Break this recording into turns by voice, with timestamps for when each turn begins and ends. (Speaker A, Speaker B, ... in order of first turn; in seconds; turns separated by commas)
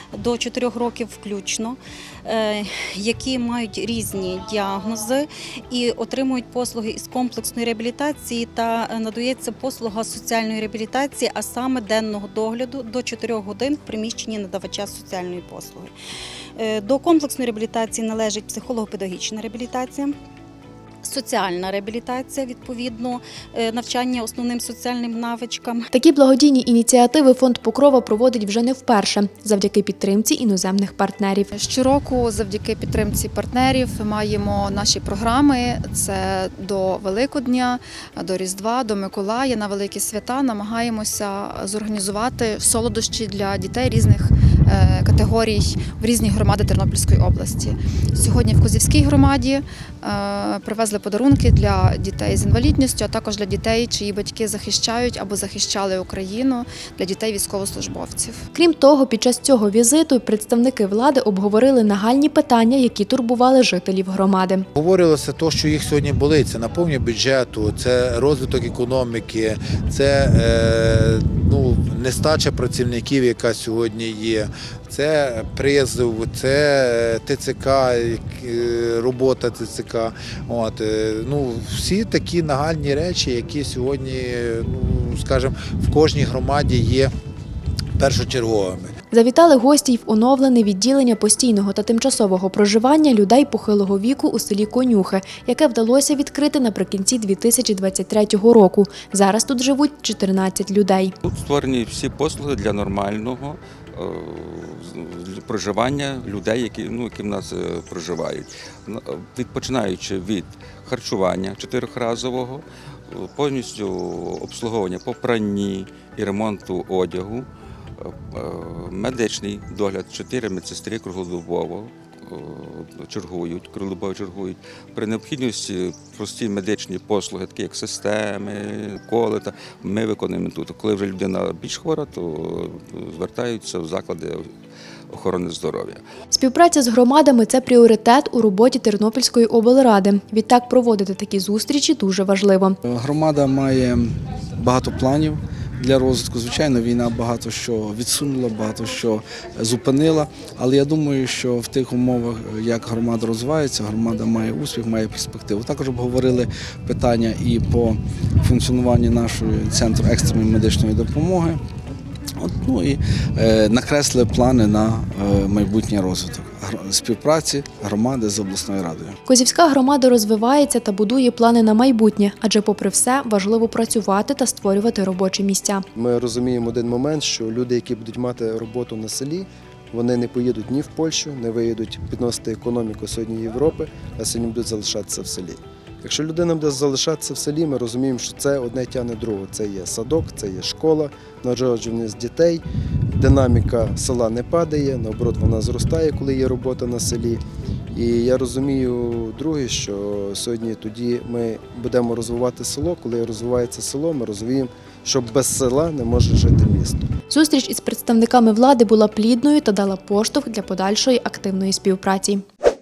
Speaker A: 0.1-15.9, Speaker A: 16.6-20.1, Speaker A: 21.0-25.9, Speaker B: 25.9-31.5, Speaker C: 31.5-58.5, Speaker B: 58.5-64.7, Speaker D: 64.7-87.1, Speaker D: 88.0-88.9, Speaker B: 89.1-101.1, Speaker E: 101.2-117.5, Speaker E: 118.0-134.5, Speaker E: 135.1-136.0, Speaker B: 136.3-142.8, Speaker F: 142.8-161.6, Speaker F: 162.4-169.1, Speaker B: 169.2-175.8, Speaker G: 176.0-185.5, Speaker G: 186.0-192.6, Speaker G: 193.2-197.4, Speaker G: 197.9-206.7, Speaker B: 207.3-212.4